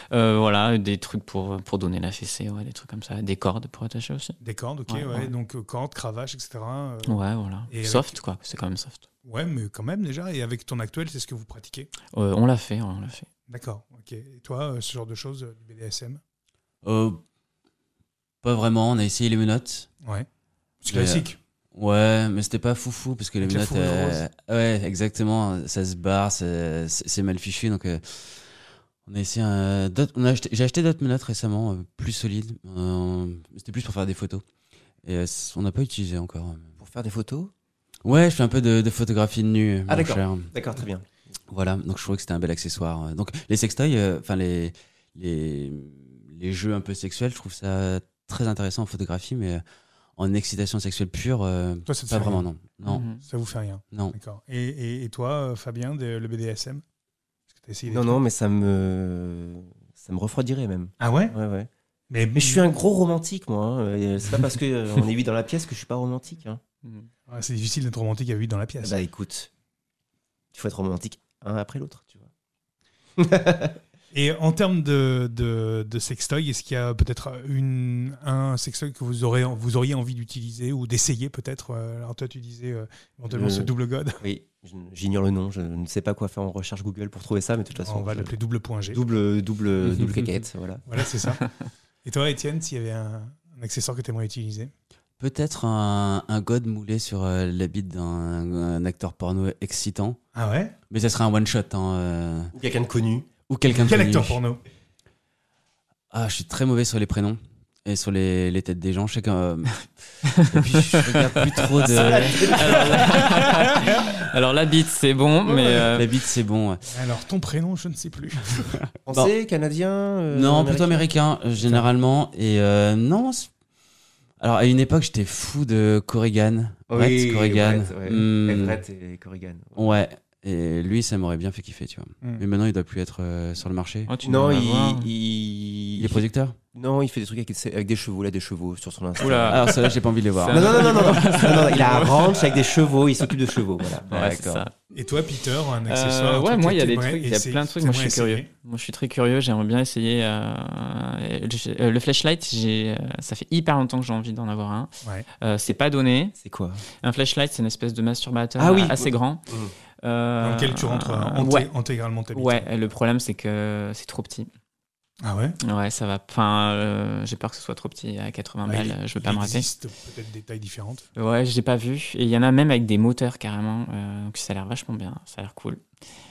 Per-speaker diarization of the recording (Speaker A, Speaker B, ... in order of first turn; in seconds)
Speaker A: 0.1-4.3, 4.9-5.3, 7.0-9.0, 12.1-13.3, 52.8-53.2, 110.4-116.1, 134.1-135.1, 139.2-139.7, 140.4-143.3, 144.1-144.7, 145.8-156.3, 157.0-159.4, 160.0-161.7, 162.3-164.5, 165.6-169.7, 171.2-175.8
Speaker B: 4.4-8.2, 9.2-11.9, 13.5-16.2, 20.8-21.4, 23.4-24.2, 51.8-52.5, 53.1-56.8, 57.5-58.2, 61.0-61.3, 62.1-62.7, 67.3-69.0, 74.1-84.2, 87.8-89.0, 90.9-91.4, 92.0-94.7, 100.3-100.7, 103.7-104.6, 116.9-118.8, 121.6-121.9, 144.9-148.5, 160.4-162.7, 165.2-165.5, 168.6-171.1
Speaker C: 16.8-17.2, 18.4-19.9, 20.9-34.4, 35.0-36.7, 38.0-40.5, 41.5-49.6, 50.1-53.0, 95.2-100.2, 100.9-102.5, 103.5-104.4, 106.1-113.4, 115.9-116.8, 120.3-123.5, 124.4-128.8, 129.8-134.1, 136.0-136.6, 139.5-141.5
Speaker D: 36.8-37.5, 39.9-41.1, 57.9-61.7, 62.3-66.6, 68.8-69.5, 70.5-72.3, 73.2-73.8, 83.3-88.3, 88.9-90.8, 102.5-103.3, 111.3-113.3, 115.5-115.9, 119.0-121.1, 126.9-129.9, 134.2-139.8, 140.5-144.7, 156.4-156.8, 158.6-159.7